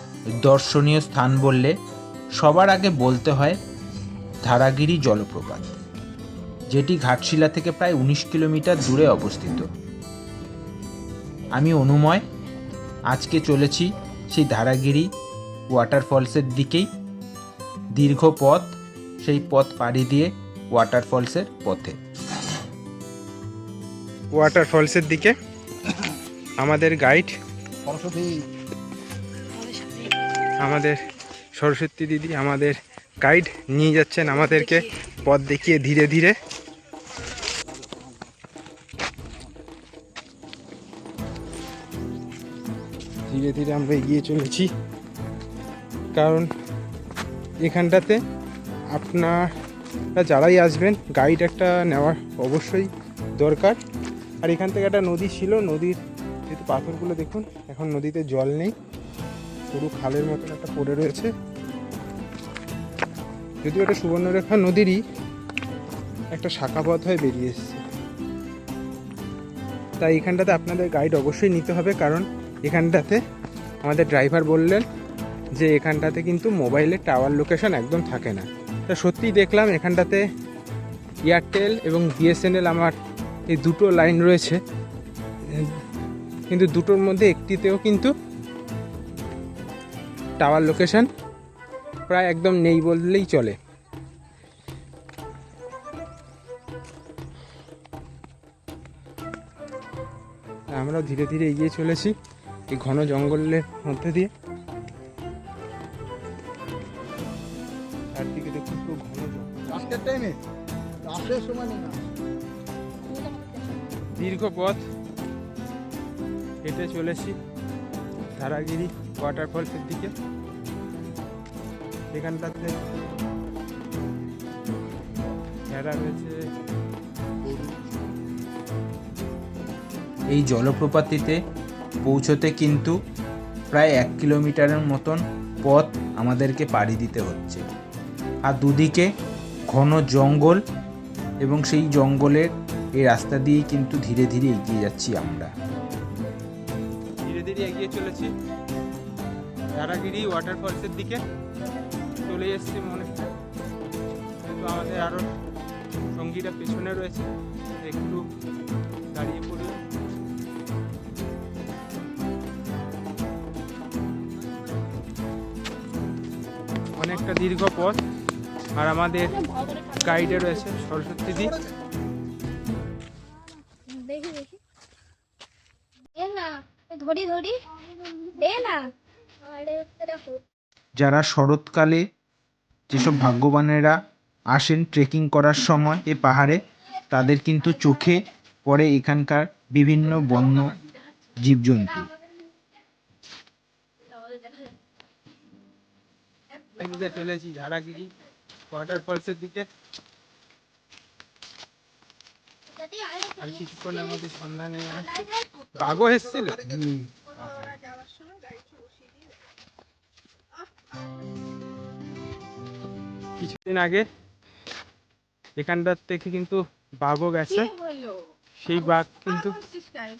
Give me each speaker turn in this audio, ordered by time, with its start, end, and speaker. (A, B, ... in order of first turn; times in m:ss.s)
0:00.4-0:01.8 A
0:02.4-0:03.6 A
0:04.4-0:05.8 A
0:06.7-0:09.7 A
0:11.6-0:12.2 A
0:13.1-0:15.1 A
0:15.7-0:16.9 A
0:18.0-0:18.7 A
0:19.2-0:22.0 A
0:24.3-0:25.4 B
0:26.6-0:27.4 B
0:27.8-0:28.5 C
0:30.6-0:31.0 B
0:31.6-0:36.4 B
0:43.3-0:44.7 B
0:46.2-0:46.5 B
0:47.6-0:48.2 B
0:48.9-0:49.5 B
0:50.2-0:53.8 B
0:54.4-0:58.7 B
0:59.7-1:01.3 B
1:03.6-1:05.0 B
1:06.3-1:07.8 B
1:10.0-1:13.2 B
1:13.8-1:14.9 B
1:15.6-1:20.2 B
1:21.3-1:23.0 B
1:23.5-1:24.6 B
1:25.5-1:25.8 B
1:26.5-1:28.1 B
1:30.4-1:31.1 B
1:32.1-1:33.6 B
1:40.8-1:42.2 B
1:42.7-1:44.3 B
1:48.2-1:49.7 B
1:49.7-1:50.4 C
1:51.0-1:52.0 C
1:54.2-1:54.8 B
1:56.6-1:57.4 B
1:58.4-2:00.1 B
2:02.1-2:02.8 B
2:05.7-2:06.4 B
2:10.3-2:11.4 A
2:12.0-2:13.0 A
2:13.7-2:17.6 A
2:18.5-2:19.1 A
2:19.7-2:20.6 A
2:21.4-2:25.5 A
2:27.2-2:28.3 B
2:29.7-2:31.2 B
2:32.2-2:33.4 B
2:34.4-2:35.3 B
2:36.1-2:37.3 B
2:37.8-2:38.3 B
2:39.1-2:39.8 B
2:46.9-2:48.0 B
2:48.8-2:51.6 B
2:53.8-2:54.6 D
2:56.1-3:00.4 D
3:01.0-3:02.0 A
3:02.9-3:04.0 A
3:04.5-3:10.8 A
3:11.4-3:12.1 A
3:16.8-3:18.1 B
3:18.7-3:19.7 B
3:23.2-3:26.7 B
3:27.5-3:27.7 B
3:33.4-3:34.1 B
3:35.6-3:37.8 B
3:38.6-3:39.7 B